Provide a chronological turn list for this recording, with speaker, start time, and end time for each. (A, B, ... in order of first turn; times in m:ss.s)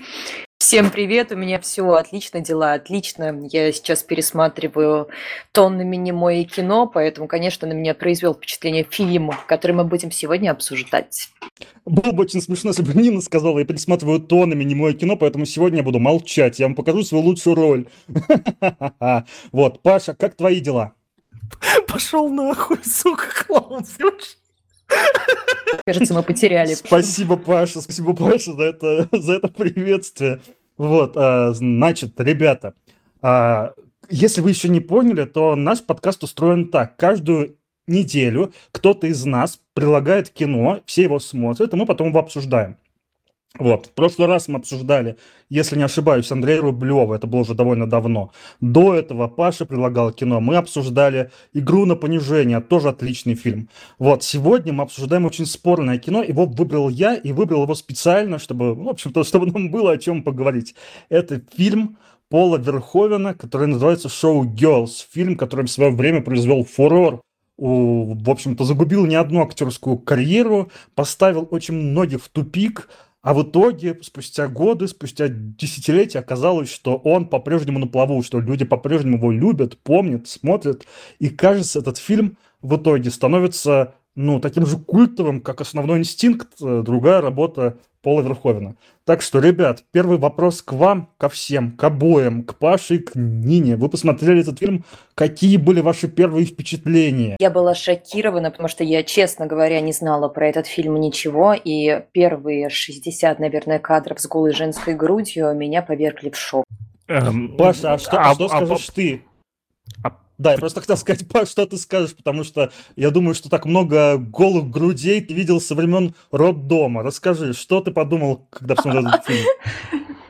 0:00.6-0:11.3 A
0:11.9-0:20.9 B
0:21.6-0:24.4 C
0:25.0-0:25.3 C
0:25.8-0:27.1 A
0:26.6-0:42.8 B
0:43.6-1:37.4 B
1:37.4-1:46.6 A
1:47.1-1:48.9 C
1:47.6-1:49.2 B
1:50.4-1:59.5 B